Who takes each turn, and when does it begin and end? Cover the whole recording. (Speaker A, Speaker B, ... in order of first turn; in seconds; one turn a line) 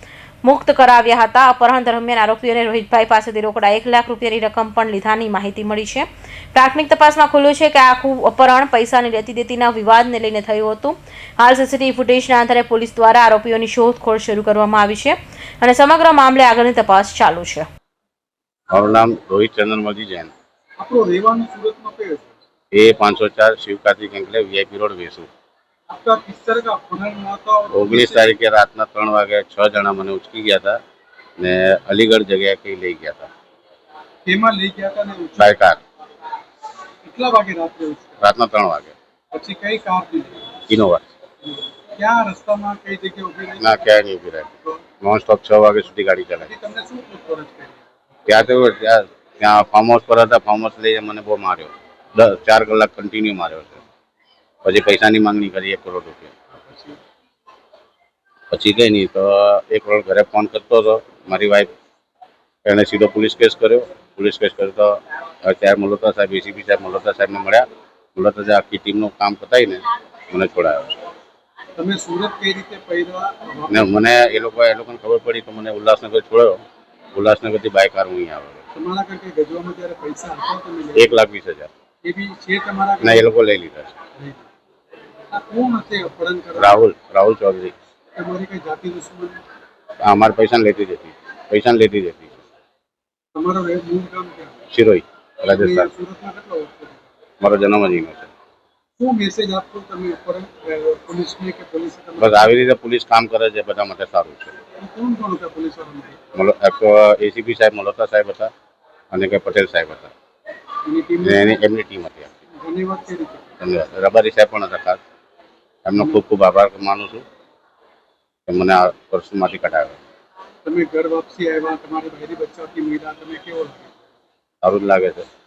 Speaker A: 0.4-17.7
Speaker B: 18.7-20.3
Speaker C: 20.8-22.3
Speaker B: 22.7-25.3
Speaker C: 25.9-28.4
Speaker B: 27.7-30.8
Speaker B: 31.4-33.3
Speaker C: 34.2-35.5
Speaker B: 35.4-35.8
Speaker C: 37.0-38.2
Speaker B: 38.2-38.9
Speaker C: 39.3-40.5
Speaker B: 40.7-41.0
Speaker C: 41.5-43.8
Speaker B: 43.6-44.5
Speaker B: 45.0-46.5
Speaker C: 46.4-47.8
Speaker B: 48.2-53.8
Speaker B: 54.6-56.3
Speaker C: 56.5-57.0
Speaker B: 58.5-61.7
Speaker B: 62.6-70.9
Speaker C: 71.8-73.9
Speaker B: 73.7-76.6
Speaker B: 77.1-78.6
Speaker C: 78.8-81.2
Speaker B: 80.9-81.7
Speaker C: 82.0-83.3
Speaker B: 83.0-83.9
Speaker C: 85.3-86.8
Speaker B: 86.6-87.7
Speaker C: 88.1-89.4
Speaker B: 90.0-92.3
Speaker C: 93.3-94.6
Speaker B: 94.7-95.9
Speaker C: 95.5-97.0
Speaker B: 97.4-98.3
Speaker C: 99.0-102.6
Speaker B: 102.2-104.5
Speaker C: 104.8-106.2
Speaker B: 106.3-108.5
Speaker B: 109.1-110.1
Speaker C: 110.8-111.6
Speaker B: 111.2-112.3
Speaker C: 112.6-113.5
Speaker B: 113.6-115.0
Speaker B: 115.8-117.2
Speaker B: 118.5-120.0
Speaker C: 120.6-123.9
Speaker B: 124.6-125.3